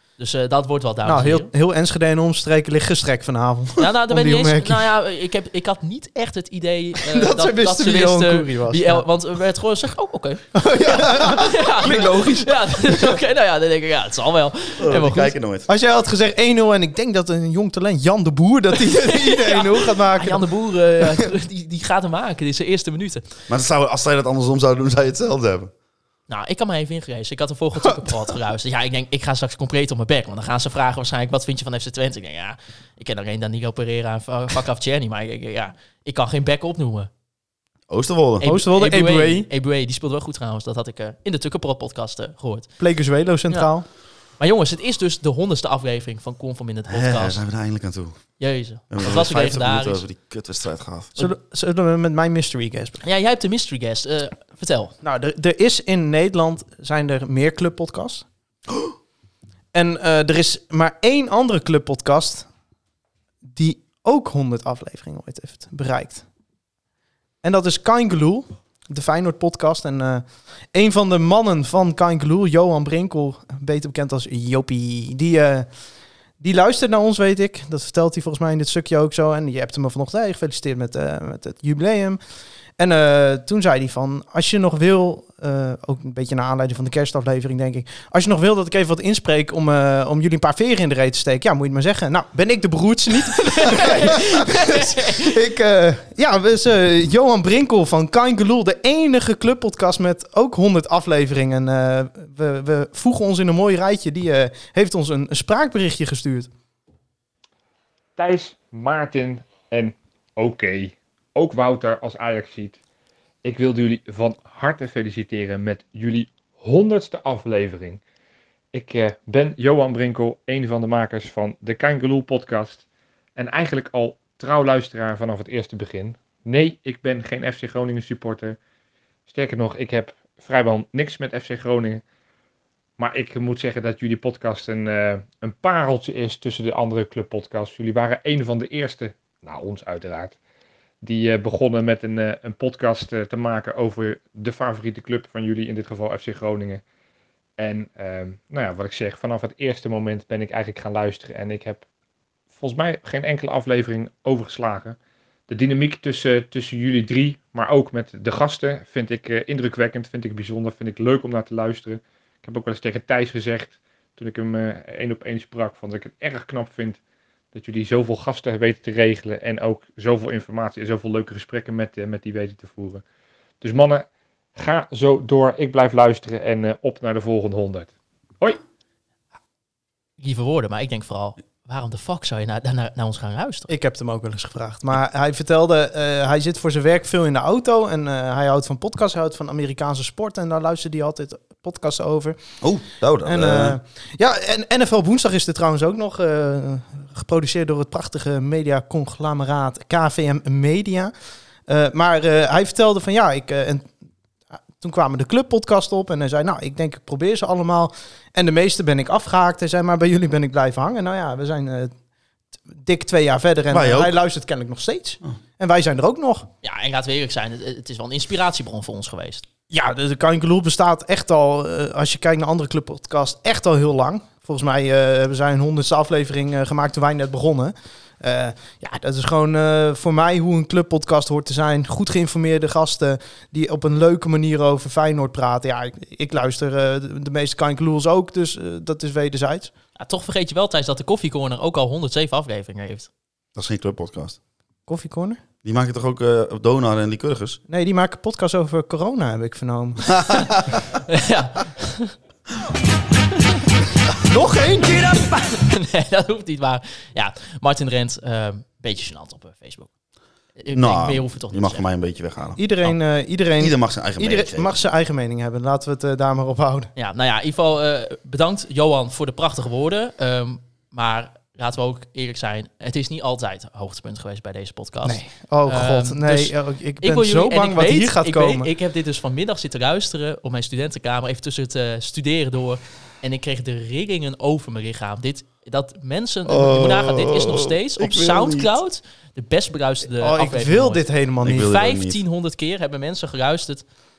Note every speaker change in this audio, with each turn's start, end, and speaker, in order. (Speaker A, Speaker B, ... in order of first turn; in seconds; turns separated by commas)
Speaker A: 0.2-1.5, Speaker B: 1.1-4.9, Speaker A: 3.8-15.4, Speaker B: 7.1-9.0, Speaker B: 10.5-13.2, Speaker C: 14.8-15.7, Speaker B: 15.7-20.5, Speaker A: 18.8-23.2, Speaker C: 23.5-25.7, Speaker A: 26.3-37.1, Speaker C: 37.9-38.5, Speaker A: 38.4-42.7, Speaker B: 38.4-39.5, Speaker B: 42.8-43.9, Speaker A: 44.4-47.4, Speaker C: 46.9-48.4, Speaker A: 48.4-50.0, Speaker C: 48.9-51.2, Speaker B: 51.2-53.0, Speaker A: 53.0-54.9, Speaker B: 55.0-58.2, Speaker B: 59.7-62.5, Speaker B: 63.5-66.2, Speaker B: 67.4-75.7, Speaker B: 76.4-82.2, Speaker B: 82.8-106.5, Speaker A: 93.3-95.3, Speaker D: 108.2-112.8, Speaker D: 113.4-118.0, Speaker D: 118.7-122.8, Speaker D: 123.4-128.6, Speaker D: 129.3-132.0, Speaker D: 133.0-140.3, Speaker D: 141.0-146.8, Speaker D: 147.6-151.8, Speaker D: 152.6-167.0, Speaker D: 167.5-173.0, Speaker D: 173.6-177.9, Speaker A: 180.2-183.7, Speaker B: 183.7-192.4, Speaker C: 192.6-193.8, Speaker B: 193.3-201.1, Speaker B: 201.7-203.9, Speaker B: 204.8-211.9, Speaker B: 212.7-216.5, Speaker C: 213.7-214.2, Speaker A: 216.6-219.4, Speaker B: 219.7-239.7, Speaker A: 240.0-243.1, Speaker C: 243.6-244.4, Speaker B: 244.9-245.4, Speaker C: 245.6-247.6, Speaker B: 247.7-250.5, Speaker C: 250.1-250.6, Speaker A: 251.1-252.2, Speaker B: 254.2-255.2, Speaker A: 255.4-259.9, Speaker A: 260.6-261.8, Speaker C: 260.7-262.6, Speaker B: 262.6-266.9, Speaker C: 263.6-264.7, Speaker A: 267.0-293.9, Speaker B: 275.0-278.7, Speaker C: 286.5-288.7, Speaker B: 290.1-291.7, Speaker C: 291.4-292.2